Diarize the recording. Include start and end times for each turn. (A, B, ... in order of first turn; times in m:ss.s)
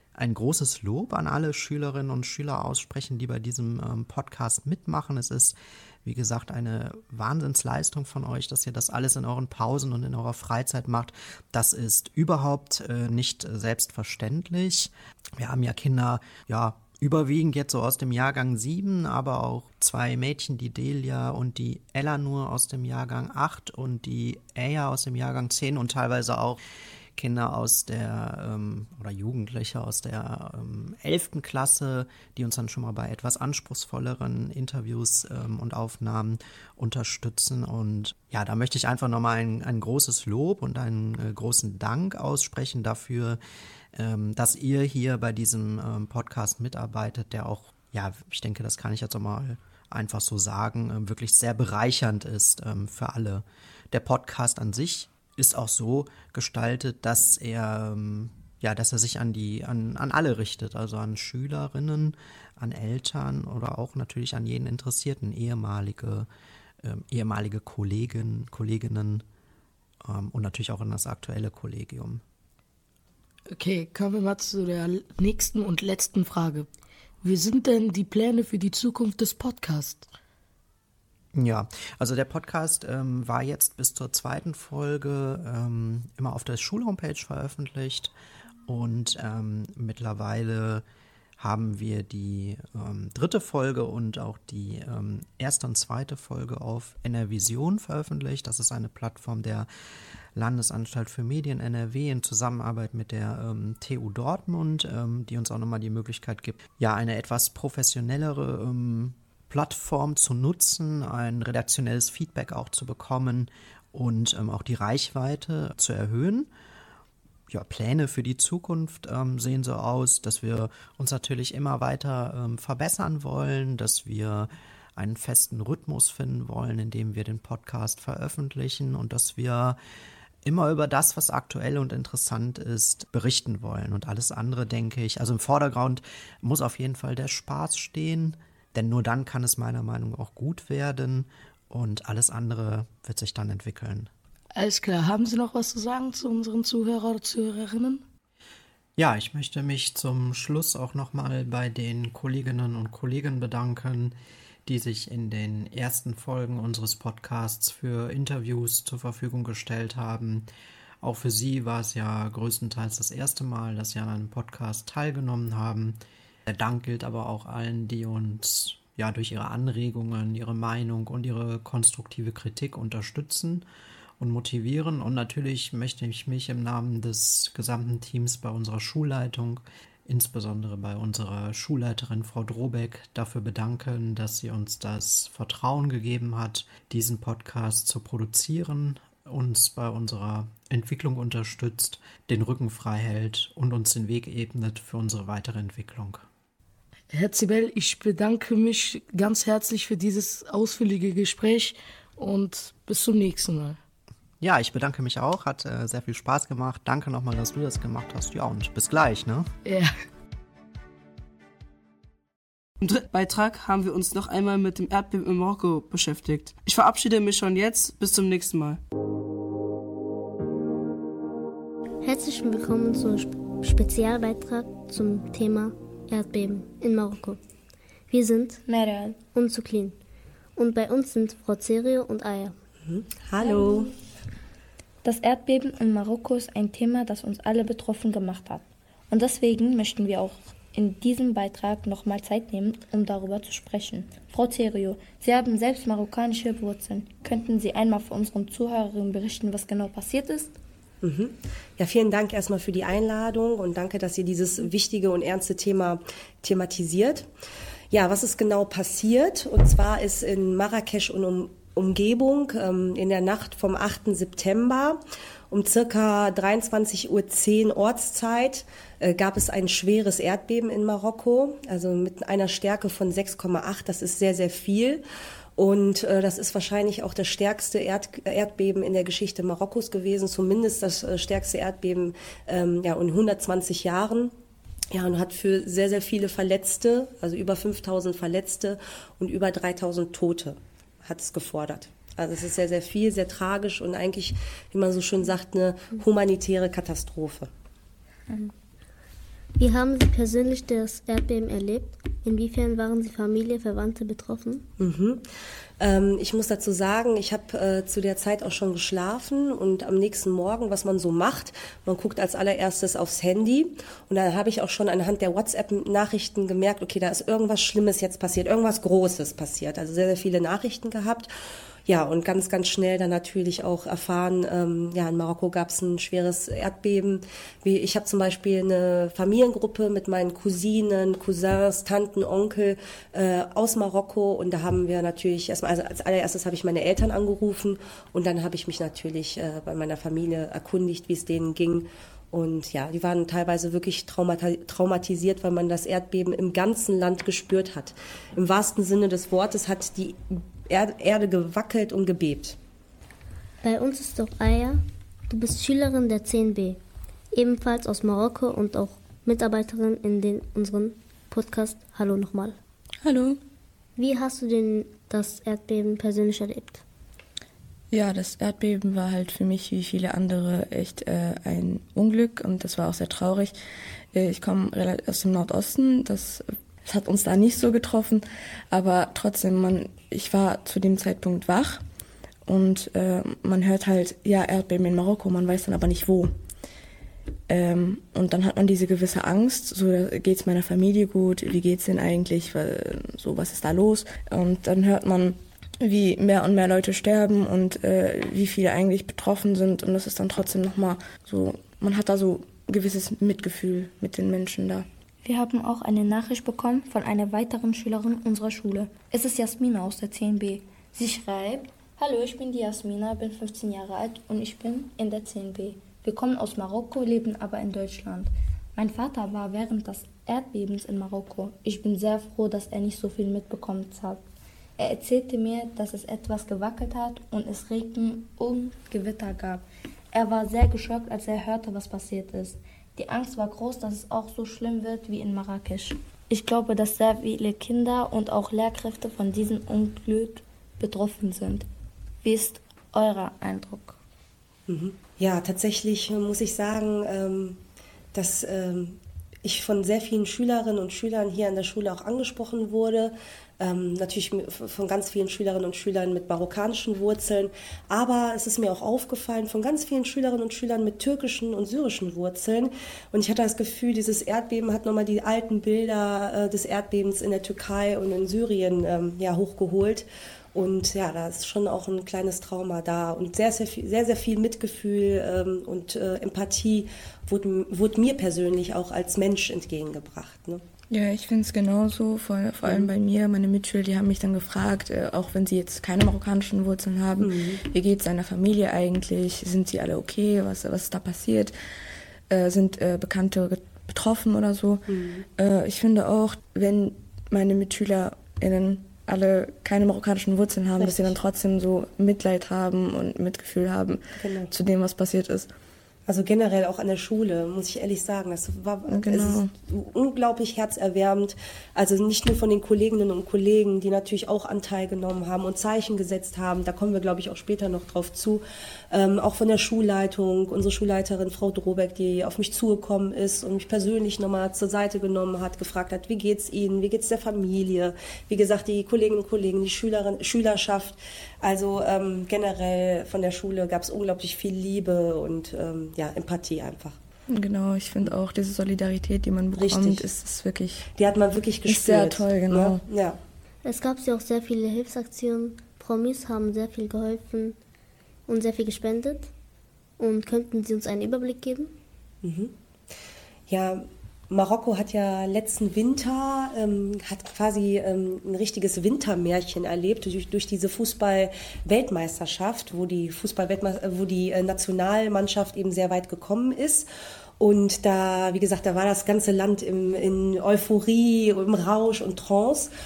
0:00.2-0:26.6 A
0:27.2-0:43.4 A
0:43.9-1:06.3 A
1:06.8-1:09.2 A
1:10.0-1:12.2 A
1:13.5-1:16.7 B
1:17.2-1:20.1 B
1:21.3-1:28.1 A
1:28.7-1:30.8 A
1:31.4-1:39.7 A
1:40.4-1:56.5 A
1:57.5-2:09.8 A
2:10.4-2:24.1 A
2:24.6-2:28.0 B
2:29.0-2:40.5 A
2:41.0-2:53.6 A
2:54.2-3:16.3 A
3:17.1-3:23.8 B
3:24.4-3:29.5 A
3:29.6-3:29.9 B
3:32.8-3:38.8 C
3:42.0-3:47.4 D
3:48.1-3:48.6 D
3:48.6-3:49.2 E
3:49.4-3:50.0 D
3:50.6-3:52.6 D
3:52.8-3:53.9 F
3:55.0-4:10.5 E
4:11.0-4:17.3 F
4:17.9-4:35.0 F
4:35.6-4:44.3 F
4:44.9-4:57.5 F
4:59.6-5:04.6 D
5:04.8-5:05.2 F
5:05.8-5:21.3 F
5:21.9-5:52.6 F
5:53.6-5:56.8 D
5:57.3-6:02.6 D
6:03.0-6:03.4 G
6:04.0-6:06.8 D
6:07.9-6:13.6 G
6:14.1-6:21.8 G
6:22.5-6:26.3 G
6:27.5-6:44.9 G
6:45.2-7:04.2 E
7:04.8-7:21.7 E
7:22.2-7:24.0 E
7:24.7-7:27.6 F
7:28.1-8:00.6 F
8:00.9-8:11.6 G
8:02.6-8:02.9 F
8:07.2-8:07.6 F
8:12.3-8:25.5 G
8:14.9-8:15.3 F
8:20.8-8:21.2 F
8:24.2-8:24.5 F
8:26.1-8:57.0 F
8:28.9-8:29.5 G
8:57.3-9:00.9 G
8:59.6-9:00.1 F
9:01.0-9:03.2 F
9:01.6-9:02.8 G
9:03.6-9:07.6 D
9:08.3-9:09.3 D
9:10.0-9:11.7 D
9:12.2-9:12.5 F
9:13.5-9:26.9 F
9:27.4-9:32.7 F